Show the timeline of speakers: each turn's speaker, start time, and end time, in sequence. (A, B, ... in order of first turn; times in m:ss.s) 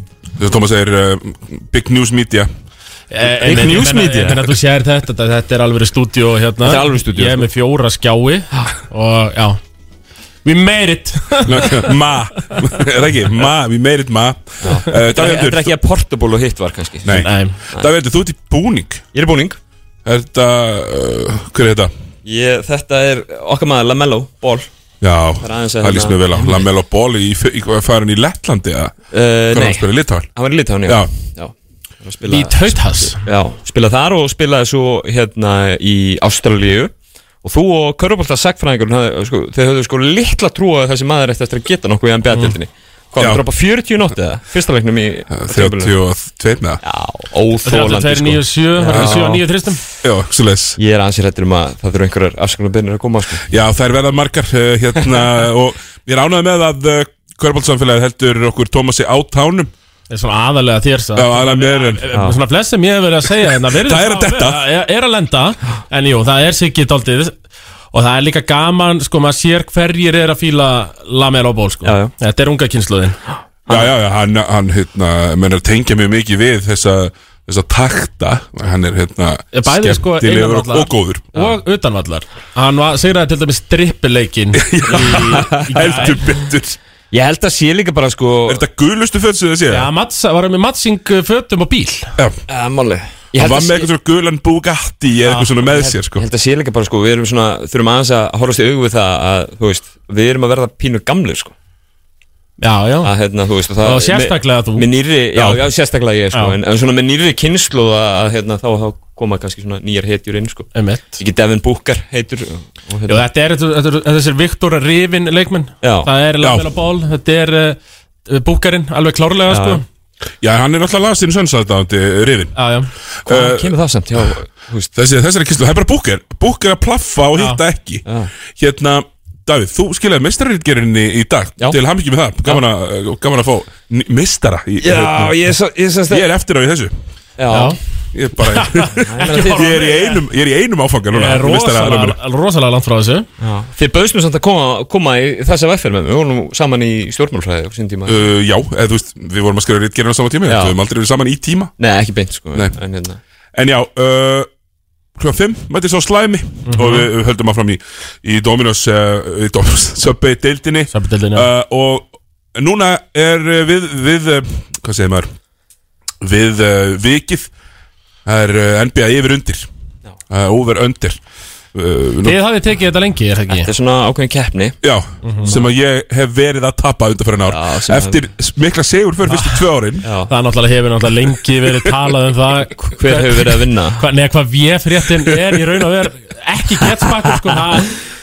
0:00.4-0:02.5 A
0:03.1-0:09.6 B
0:03.4-0:04.5 C
0:06.6-0:07.5 C
0:10.4-0:11.8 B
0:11.4-0:15.7 A
0:14.6-0:17.9 C
0:17.0-0:19.0 A
0:17.1-0:17.6 B
0:19.1-0:19.6 C
0:20.0-0:21.9 A
0:22.2-0:24.7 C
0:25.0-0:29.0 A
0:25.4-0:26.2 C
0:29.1-0:36.9 C
0:29.5-0:30.3 A
0:32.3-0:33.2 B
0:37.4-0:45.9 C
0:45.3-0:46.8 A
0:46.8-0:49.4 C
0:47.6-0:49.8 B
0:48.9-0:49.2 A
0:50.0-0:50.8 A
0:50.8-0:53.4 C
0:53.5-0:59.7 A
1:00.1-1:07.3 B
1:01.1-1:02.1 A
1:03.6-1:04.6 A
1:07.9-1:13.2 B
1:11.8-1:12.1 C
1:13.7-1:21.3 A
1:19.5-1:26.2 B
1:24.6-1:26.8 A
1:24.9-1:26.2 C
1:27.1-1:28.6 C
1:28.5-1:29.9 A
1:29.7-1:32.1 B
1:32.5-1:33.9 C
1:33.4-1:36.2 A
1:35.7-1:41.5 C
1:42.6-1:43.1 B
1:43.0-1:53.2 C
1:43.8-1:44.8 B
1:50.7-1:51.2 B
1:53.1-1:59.8 B
1:55.8-1:56.1 C
1:56.4-1:56.7 A
1:59.5-1:59.8 C
2:00.4-2:02.5 A
2:02.6-2:02.9 B
2:03.2-2:03.7 A
2:03.2-2:04.9 C
2:04.9-2:15.3 A
2:08.0-2:08.3 C
2:14.8-2:16.2 C
2:16.1-2:17.0 A
2:17.4-2:17.8 C
2:17.5-2:17.8 B
2:18.1-2:22.2 A
2:18.5-2:20.2 B
2:18.9-2:19.9 C
2:21.1-2:23.2 B
2:23.4-2:28.2 C
2:28.1-2:31.7 A
2:30.5-2:30.8 C
2:31.8-2:33.2 C
2:33.5-2:34.5 A
2:35.2-2:45.3 A
2:36.6-2:37.1 B
2:40.9-2:41.5 B
2:46.2-2:47.5 A
2:48.2-2:49.7 A
2:50.3-2:51.2 A
2:51.7-2:52.4 A
2:52.2-2:53.7 B
2:53.5-2:54.8 C
2:54.8-3:00.0 A
2:55.2-2:55.5 B
2:57.5-2:58.2 C
2:59.3-2:59.6 B
3:00.0-3:00.3 C
3:00.3-3:07.9 B
3:02.8-3:04.0 C